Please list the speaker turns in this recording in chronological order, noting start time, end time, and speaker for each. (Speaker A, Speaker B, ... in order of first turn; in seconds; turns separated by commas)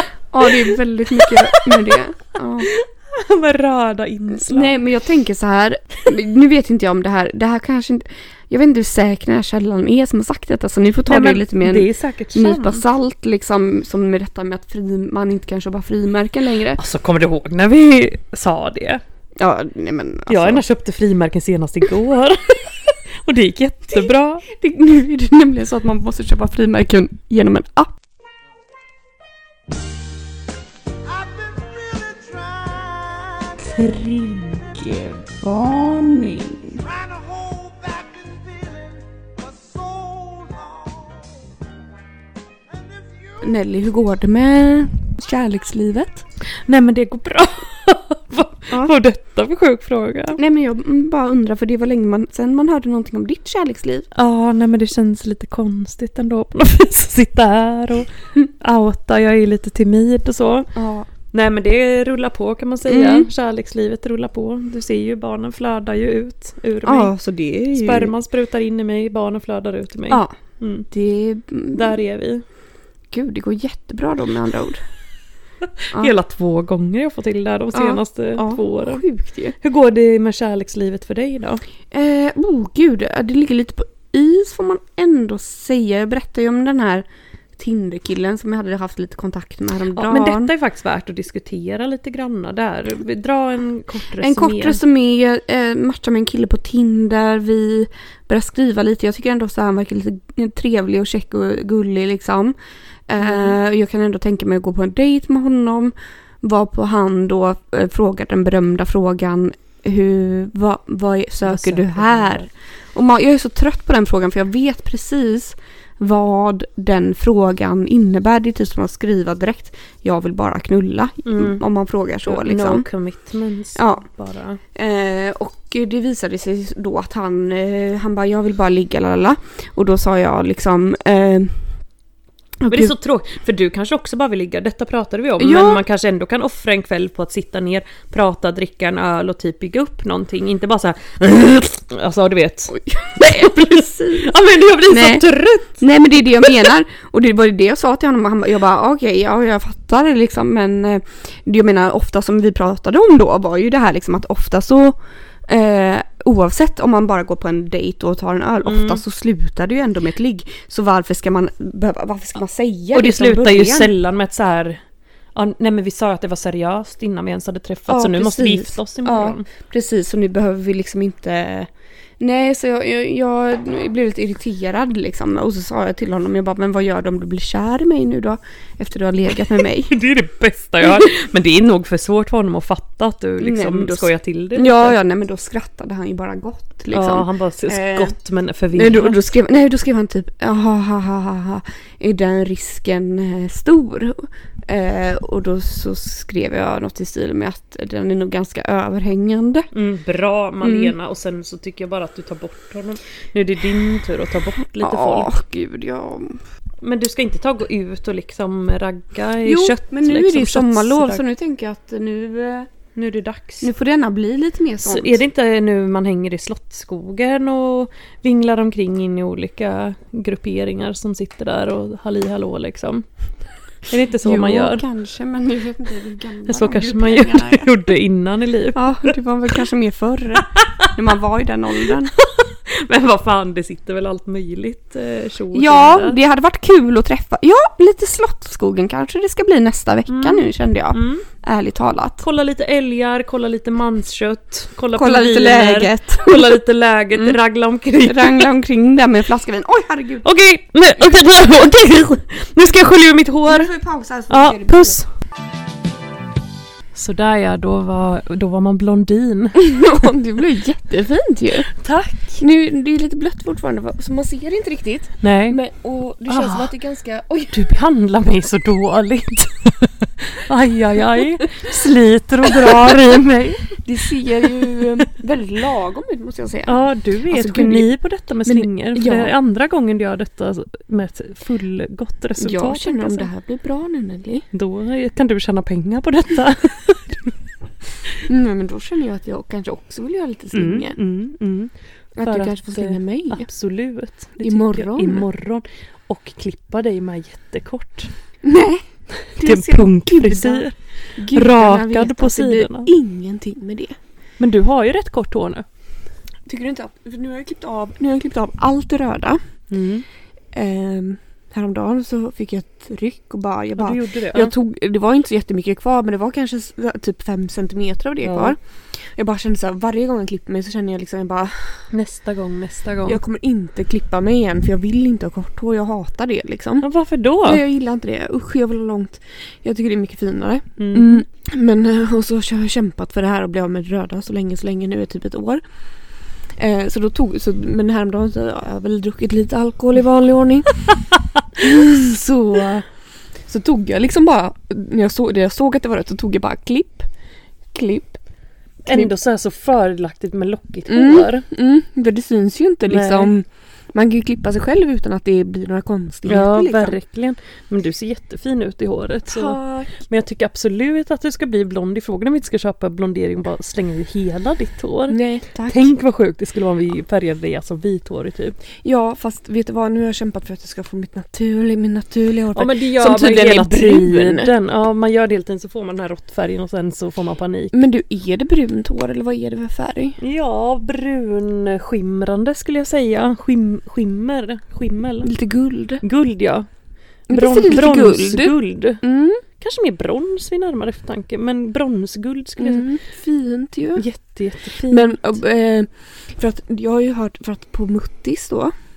Speaker A: 0.3-2.7, Speaker B: 0.4-2.0, Speaker B: 2.7-4.8, Speaker A: 4.5-16.8, Speaker B: 11.1-12.8, Speaker B: 16.8-19.0, Speaker A: 19.4-20.6, Speaker B: 20.3-24.4, Speaker A: 24.5-27.9, Speaker C: 31.1-41.3, Speaker A: 43.4-46.2, Speaker B: 46.6-50.4, Speaker A: 50.4-54.1, Speaker B: 54.1-60.7, Speaker A: 60.8-61.1, Speaker B: 61.3-67.1, Speaker A: 62.9-63.3, Speaker A: 66.8-68.1, Speaker B: 67.7-70.9, Speaker A: 70.1-70.4, Speaker A: 70.9-71.9, Speaker B: 71.7-72.4, Speaker A: 73.1-74.8, Speaker B: 75.8-79.0, Speaker A: 77.7-79.6, Speaker B: 79.6-81.6, Speaker A: 81.9-87.0, Speaker A: 87.6-90.5, Speaker B: 89.9-94.8, Speaker A: 94.2-102.6, Speaker A: 103.1-122.9, Speaker B: 103.2-103.6, Speaker B: 111.4-112.5, Speaker B: 121.2-121.6, Speaker B: 122.2-124.6, Speaker A: 123.8-124.0, Speaker A: 124.8-131.6, Speaker A: 132.6-132.9, Speaker B: 132.7-145.8, Speaker A: 135.4-135.8, Speaker A: 142.7-144.3, Speaker A: 144.9-163.9, Speaker B: 146.4-146.7, Speaker B: 158.6-159.0, Speaker B: 162.9-164.8, Speaker B: 165.3-169.5, Speaker A: 167.9-171.7, Speaker A: 172.2-179.9, Speaker B: 179.9-185.0, Speaker A: 183.4-188.2, Speaker B: 186.9-189.2, Speaker A: 188.7-199.7, Speaker B: 199.7-205.3, Speaker A: 200.6-200.9, Speaker A: 204.8-206.4, Speaker B: 206.8-211.2, Speaker A: 209.4-212.7, Speaker B: 212.9-213.7, Speaker A: 213.6-215.2, Speaker B: 214.8-223.1, Speaker B: 223.9-224.9, Speaker A: 224.2-227.7, Speaker B: 226.5-229.1, Speaker A: 228.8-232.1, Speaker B: 230.5-230.9, Speaker B: 232.1-236.2, Speaker A: 235.5-242.2, Speaker B: 240.1-241.2, Speaker B: 242.2-248.5, Speaker A: 244.9-246.5, Speaker A: 248.0-250.3, Speaker B: 250.2-253.7, Speaker A: 253.5-255.0, Speaker B: 254.3-255.1, Speaker B: 256.9-259.7, Speaker A: 259.6-261.7, Speaker B: 261.7-262.4, Speaker A: 262.4-267.7, Speaker B: 265.2-265.6, Speaker B: 266.3-266.7, Speaker B: 267.5-273.7, Speaker A: 273.8-276.8, Speaker B: 276.7-283.3, Speaker A: 277.3-277.9, Speaker A: 278.5-279.3, Speaker A: 282.4-284.4, Speaker B: 284.5-287.3, Speaker A: 288.3-291.0, Speaker B: 290.5-298.1, Speaker A: 292.2-293.5, Speaker A: 294.4-295.3, Speaker A: 298.4-304.0, Speaker B: 299.4-300.8, Speaker B: 301.3-302.9, Speaker B: 304.4-305.7, Speaker A: 306.5-309.4, Speaker B: 309.7-310.1, Speaker A: 310.5-318.6, Speaker B: 313.8-314.5, Speaker B: 318.2-318.6, Speaker A: 319.2-321.8, Speaker B: 321.9-323.2, Speaker A: 323.1-326.9, Speaker B: 326.8-327.6, Speaker A: 327.4-335.6, Speaker B: 330.8-331.2, Speaker A: 336.6-340.8, Speaker A: 341.6-342.9, Speaker A: 343.5-347.1, Speaker A: 347.7-348.2, Speaker B: 348.9-351.4, Speaker A: 348.9-349.1, Speaker A: 350.9-357.0, Speaker B: 352.9-353.3, Speaker B: 356.3-368.6, Speaker A: 359.3-360.0, Speaker A: 365.1-365.9, Speaker A: 368.8-374.5, Speaker B: 372.6-377.8, Speaker A: 377.7-380.2, Speaker B: 380.2-385.3, Speaker A: 385.2-386.0, Speaker B: 386.0-386.7, Speaker B: 387.3-389.0, Speaker A: 387.3-389.4, Speaker B: 389.6-392.9, Speaker A: 392.6-394.1, Speaker B: 394.0-395.2, Speaker A: 394.9-398.7